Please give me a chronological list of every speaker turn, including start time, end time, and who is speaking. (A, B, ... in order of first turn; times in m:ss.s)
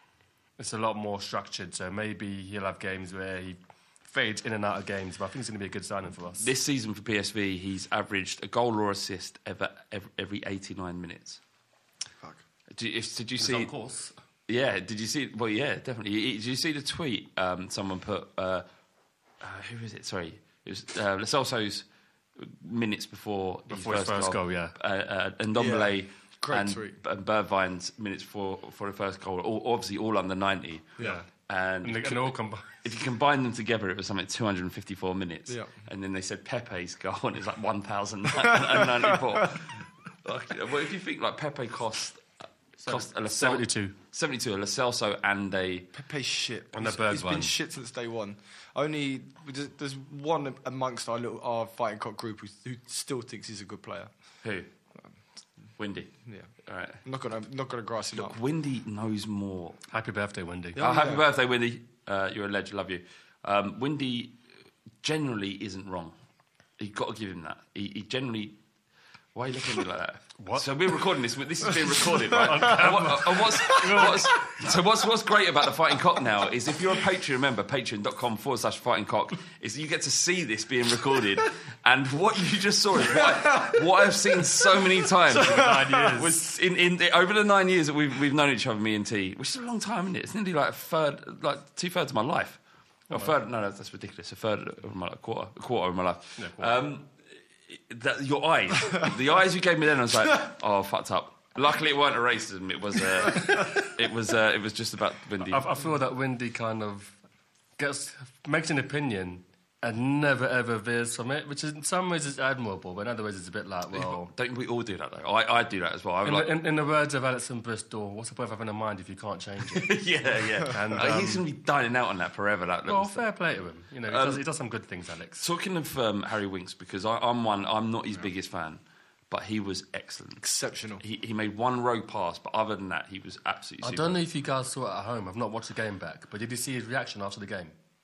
0:00.6-0:06.5 A
0:06.4-0:11.4 B
0:12.7-0:13.7 B
0:13.4-0:14.1 A
0:14.5-0:18.6 B
0:19.4-0:21.8 B
0:22.4-0:30.9 B
0:23.7-0:24.8 A
0:25.6-0:27.0 C
0:31.0-0:31.3 A
0:31.5-0:39.7 B
0:31.8-0:32.7 A
0:38.4-0:39.2 C
0:40.2-0:42.3 B
0:42.8-0:44.0 A
0:42.8-0:45.9 B
0:45.9-0:54.1 C
0:46.7-0:47.5 A
0:54.4-0:54.7 B
0:55.8-0:56.1 B
0:56.7-0:57.0 B
0:57.0-0:58.4 C
0:58.2-0:59.8 B
0:59.9-1:00.8 A
1:00.8-1:01.2 C
1:00.8-1:04.4 B
1:05.0-1:06.1 B
1:06.8-1:08.6 B
1:09.4-1:32.6 B
1:10.4-1:10.7 A
1:11.9-1:14.5 A
1:13.7-1:14.1 C
1:23.1-1:23.8 C
1:25.3-1:26.4 A
1:25.4-1:26.2 C
1:33.1-1:37.1 B
1:36.4-1:36.8 A
1:37.7-1:45.7 B
1:43.4-1:43.8 A
1:45.4-1:47.1 A
1:47.8-1:54.3 A
1:53.9-1:56.5 B
1:56.2-1:59.9 A
1:59.7-2:03.2 B
2:00.7-2:01.4 A
2:02.9-2:05.4 A
2:04.1-2:04.4 B
2:05.4-2:10.4 B
2:10.4-2:11.0 C
2:11.0-2:14.2 B
2:13.8-2:17.7 A